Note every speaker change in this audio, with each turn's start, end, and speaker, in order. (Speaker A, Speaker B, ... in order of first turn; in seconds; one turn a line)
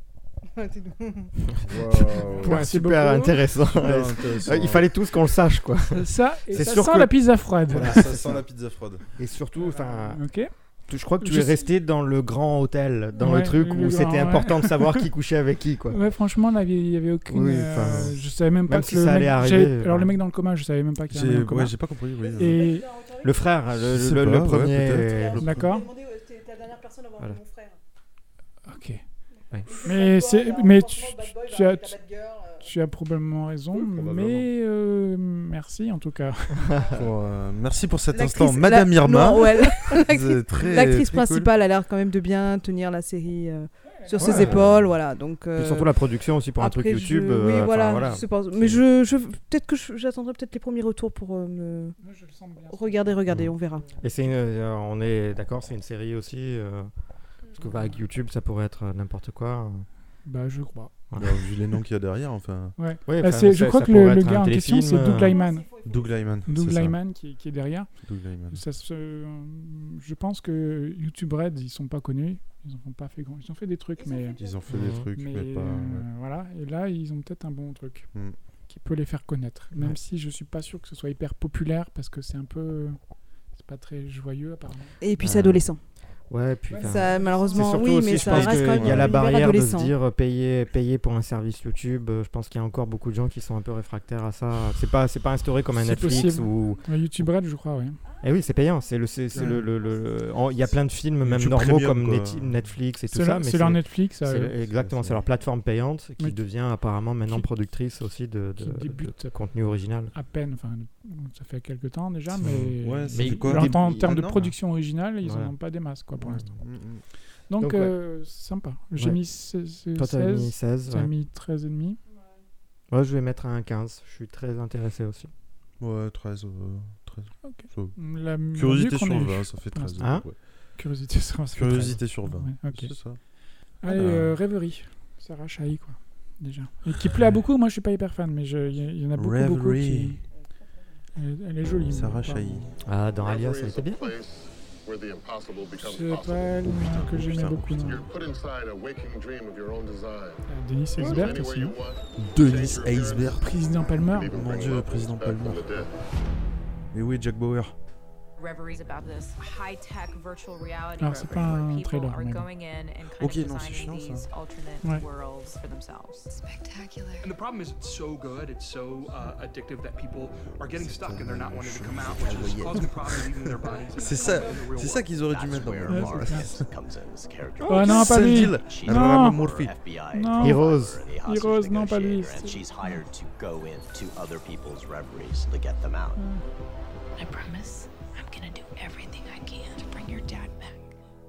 Speaker A: 0.5-1.5
Speaker B: 1.6-2.6
Speaker C: 2.1-7.1
Speaker D: 2.2-3.5
Speaker B: 3.6-4.9
Speaker D: 5.9-8.1
Speaker C: 7.7-8.4
Speaker B: 7.7-9.0
Speaker C: 9.1-16.0
Speaker D: 9.5-10.5
Speaker D: 11.2-11.7
Speaker D: 13.1-15.1
Speaker D: 15.9-22.9
Speaker C: 17.3-20.1
Speaker B: 21.1-22.6
Speaker C: 23.2-25.4
Speaker B: 23.7-25.7
Speaker D: 25.4-25.9
Speaker A: 25.8-27.1
Speaker D: 28.6-29.0
Speaker A: 29.7-30.4
Speaker D: 29.8-32.0
Speaker A: 31.9-32.2
Speaker D: 32.6-36.8
Speaker B: 33.7-34.5
Speaker B: 36.9-41.5
Speaker A: 38.1-46.0
Speaker D: 43.9-44.6
Speaker C: 44.2-44.9
Speaker B: 44.3-44.6
Speaker C: 45.5-48.8
Speaker A: 46.5-52.0
Speaker D: 52.0-54.3
Speaker A: 52.7-53.9
Speaker C: 53.3-56.9
Speaker C: 57.5-59.9
Speaker D: 57.7-58.0
Speaker D: 60.2-60.9
Speaker C: 61.1-61.4
Speaker B: 61.1-62.7
Speaker D: 62.8-65.7
Speaker C: 63.0-65.4
Speaker B: 65.8-67.0
Speaker D: 66.4-74.5
Speaker B: 68.0-68.6
Speaker B: 74.4-76.0
Speaker C: 74.7-75.1
Speaker D: 75.1-78.1
Speaker D: 78.7-83.0
Speaker D: 83.5-85.0
Speaker A: 85.0-85.8
Speaker C: 85.2-85.7
Speaker C: 86.3-96.9
Speaker D: 86.7-88.5
Speaker A: 86.8-89.9
Speaker B: 88.2-89.2
Speaker D: 95.8-98.0
Speaker C: 98.2-110.1
Speaker B: 99.3-99.6
Speaker B: 101.2-102.7
Speaker D: 103.1-104.6
Speaker B: 104.7-105.2
Speaker D: 108.6-109.3
Speaker D: 110.1-116.4
Speaker C: 112.4-114.5
Speaker B: 112.8-114.4
Speaker C: 115.2-115.5
Speaker B: 116.2-117.0
Speaker D: 117.5-122.0
Speaker C: 117.6-117.9
Speaker C: 119.9-121.1
Speaker C: 122.9-125.3
Speaker B: 125.8-130.4
Speaker D: 127.4-140.2
Speaker C: 130.0-130.2
Speaker B: 131.5-133.2
Speaker B: 133.9-134.3
Speaker B: 139.1-140.2
Speaker D: 141.1-142.7
Speaker B: 141.7-142.8
Speaker C: 142.8-144.1
Speaker E: 143.1-146.7
Speaker D: 145.8-148.1
Speaker B: 146.6-148.1
Speaker E: 147.8-150.4
Speaker D: 150.5-151.8
Speaker E: 151.0-155.9
Speaker C: 151.0-151.2
Speaker B: 152.2-155.8
Speaker D: 153.4-154.3
Speaker B: 156.9-157.7
Speaker F: 158.4-166.3
Speaker D: 161.0-162.5
Speaker B: 163.2-164.3
Speaker G: 166.3-167.3
Speaker H: 167.2-175.2
Speaker B: 170.5-176.7
Speaker I: 174.9-186.2
Speaker D: 175.8-176.6
Speaker C: 177.7-178.1
Speaker D: 177.7-179.4
Speaker B: 177.7-179.8
Speaker D: 180.1-180.7
Speaker C: 180.4-181.0
Speaker D: 181.2-183.0
Speaker D: 186.2-186.4
Speaker G: 187.2-190.9